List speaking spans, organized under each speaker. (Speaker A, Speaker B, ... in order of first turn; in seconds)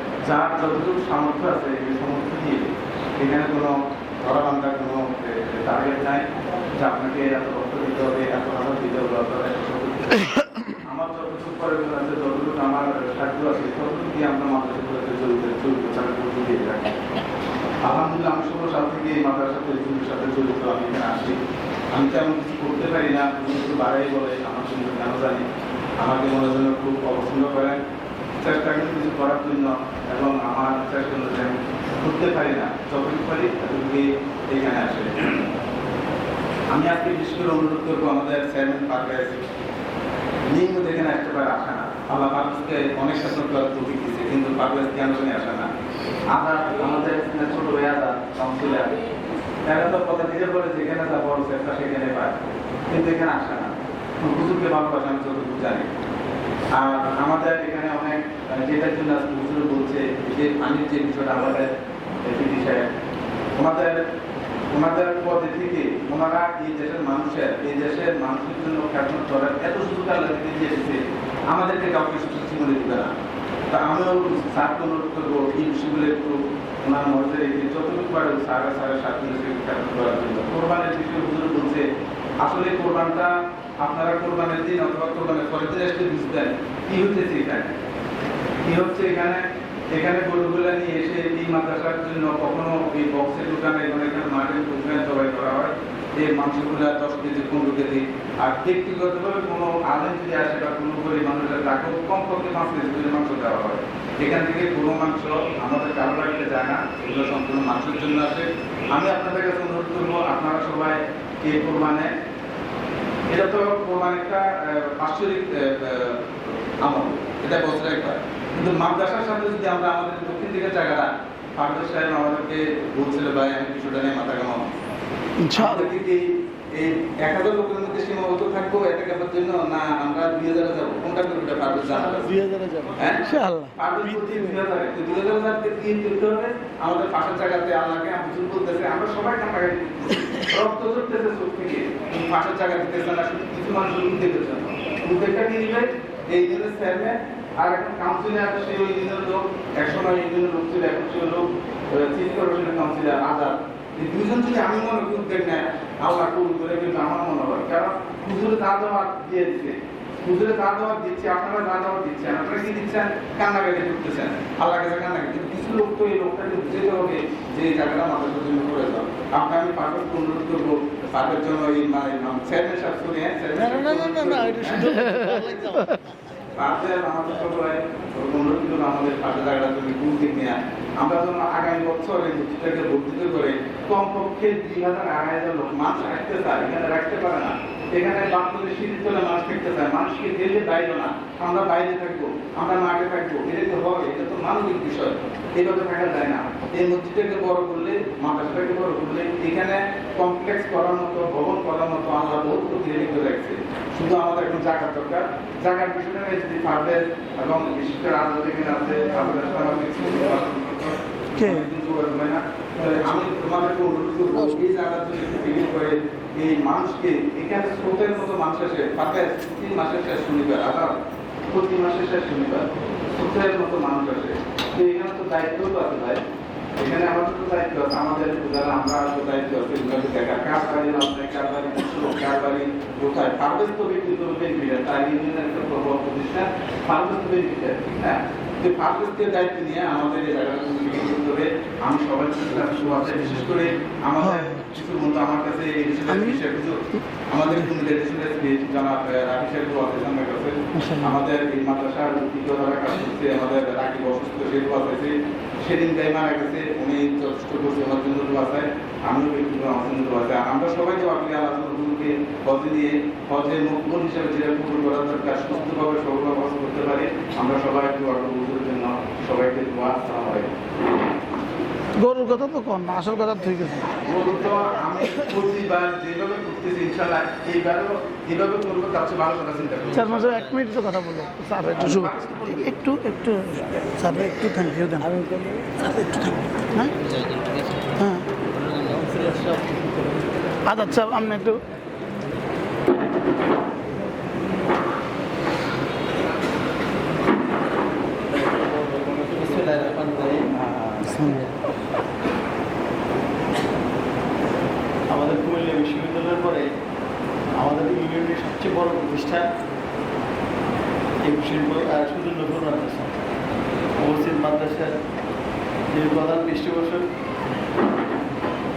Speaker A: 0.2-17.0, 17.8-21.4, 21.9-25.4, 26.0-27.8, 28.4-35.5, 36.7-39.4, 40.5-45.7, 46.3-49.0, 49.6-55.9, 56.7-62.9, 63.5-64.0, 64.7-73.1, 73.7-81.9, 82.4-87.7, 88.6-112.1, 113.3-124.8, 125.5-132.3, 133.0-133.2, 133.8-175.0, 176.6-221.0, 221.5-226.2, 226.8-270.5, 274.0-280.3, 281.7-282.8, 300.6-301.2
Speaker B: 125.4-125.9, 133.2-133.8, 211.4-211.7, 244.2-244.7, 246.1-246.4, 250.8-251.2, 272.0-274.0, 279.9-285.1, 286.0-286.9, 288.0-288.3, 290.7-291.6, 301.1-301.5
Speaker C: 131.9-133.2, 134.0-134.6, 173.6-176.0, 285.1-285.7, 288.7-289.6, 299.0-300.5, 305.1-306.7, 307.5-309.5, 311.2-313.1, 314.0-314.9, 315.9-317.1